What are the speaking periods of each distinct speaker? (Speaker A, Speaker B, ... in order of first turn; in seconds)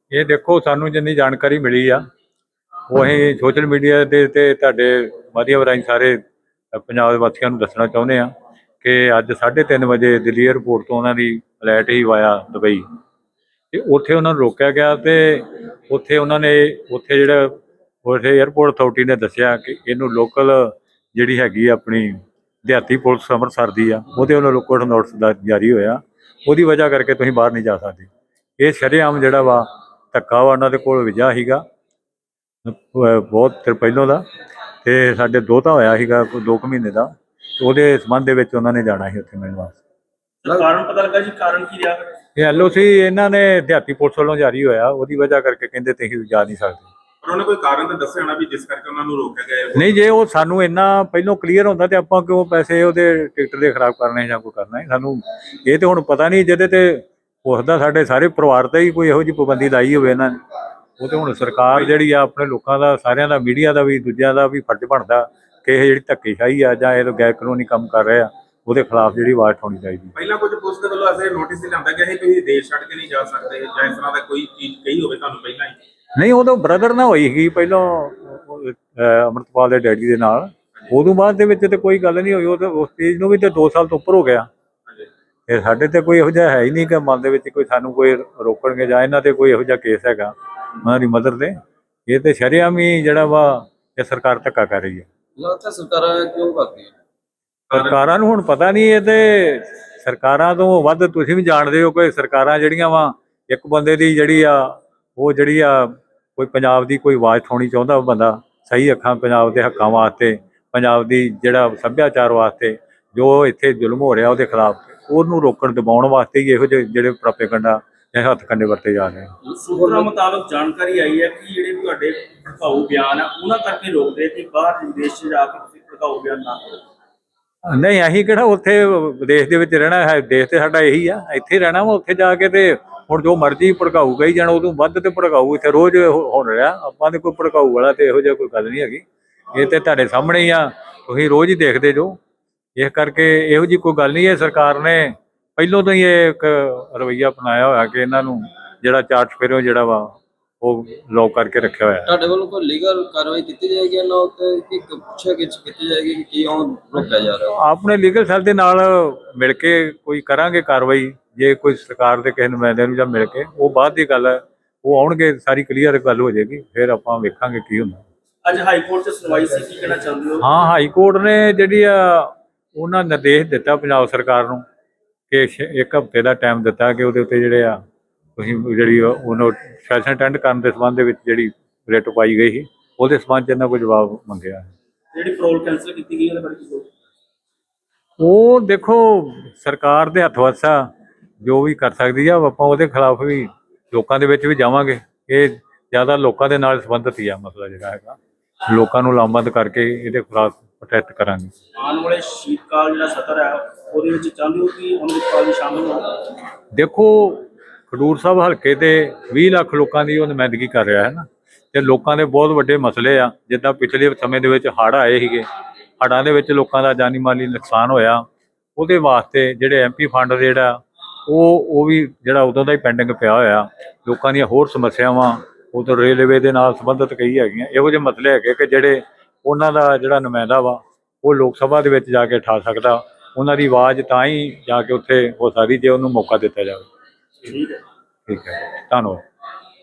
Speaker A: 0.1-2.0, 2.9-6.2, 6.7-8.3, 8.8-12.8, 13.7-31.6, 32.7-34.2, 34.8-39.8, 42.4-46.9, 49.7-60.4, 61.0-70.1, 76.2-84.5, 85.5-91.5, 92.1-95.1, 97.7-119.3, 127.7-142.2, 142.8-152.1, 157.4-168.0, 170.4-174.6, 175.3-177.8, 178.4-184.7, 188.2-190.8, 191.4-201.5, 206.7-215.4, 216.0-218.2, 218.8-236.9, 238.3-239.2
Speaker B: 40.4-42.1, 119.5-126.8, 168.4-170.6, 185.1-186.9, 201.8-206.1, 237.4-237.8
Speaker C: 47.2-50.0, 70.1-75.8
Speaker D: 95.4-96.9, 119.8-120.0, 152.0-157.6